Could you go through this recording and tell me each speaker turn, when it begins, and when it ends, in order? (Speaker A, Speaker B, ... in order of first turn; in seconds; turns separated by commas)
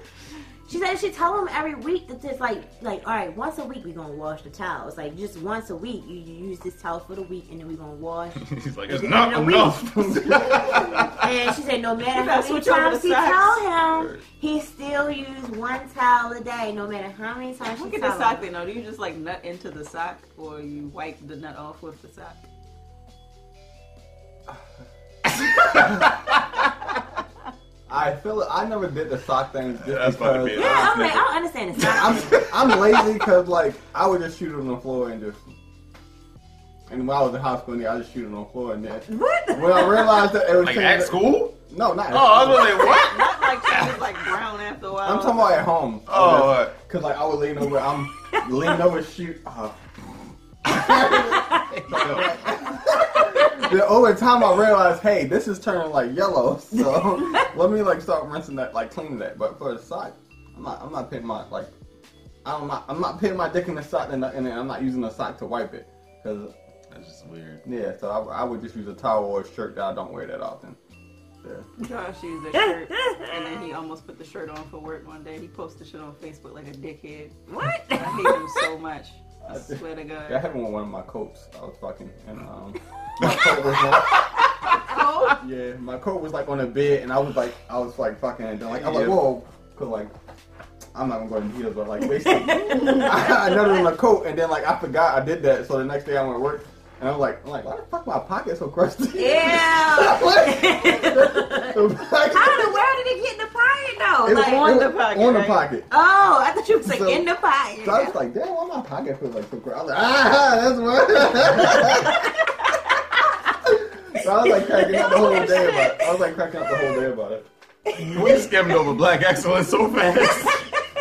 Speaker A: 0.7-9.7, Speaker B: 8.4-11.2, Speaker C: 9.0-11.1, Speaker A: 11.1-18.5, Speaker D: 12.1-13.6, Speaker B: 13.9-14.2, Speaker D: 17.6-22.4, Speaker B: 25.4-26.7, Speaker C: 25.8-26.1, Speaker C: 27.9-31.2, Speaker B: 29.8-31.3, Speaker A: 30.5-32.5, Speaker B: 31.8-33.1, Speaker C: 31.8-35.5, Speaker C: 36.9-43.0, Speaker A: 39.1-40.3, Speaker B: 40.6-41.6, Speaker B: 42.1-44.1, Speaker A: 42.8-43.1, Speaker D: 42.9-45.6, Speaker C: 45.0-49.8, Speaker B: 46.1-46.7, Speaker A: 48.2-48.7, Speaker C: 50.7-61.7, Speaker A: 50.9-51.8, Speaker B: 51.7-52.4, Speaker A: 52.9-53.7, Speaker A: 57.2-57.5, Speaker C: 62.5-66.5, Speaker B: 66.9-67.6, Speaker C: 67.6-70.8, Speaker C: 71.4-71.7, Speaker D: 71.8-77.4, Speaker A: 73.0-73.4, Speaker A: 77.5-78.5, Speaker D: 77.9-80.4, Speaker C: 79.5-84.3, Speaker D: 84.7-85.4, Speaker C: 85.3-90.1, Speaker B: 88.7-89.2, Speaker C: 90.9-102.9, Speaker A: 92.0-93.9, Speaker A: 99.2-104.8, Speaker C: 104.2-105.9, Speaker D: 104.3-105.7, Speaker A: 105.9-108.1, Speaker C: 106.8-107.3, Speaker C: 107.8-112.3, Speaker A: 111.9-113.5, Speaker C: 113.6-117.5, Speaker A: 114.4-117.0, Speaker A: 117.9-118.8, Speaker B: 118.1-120.7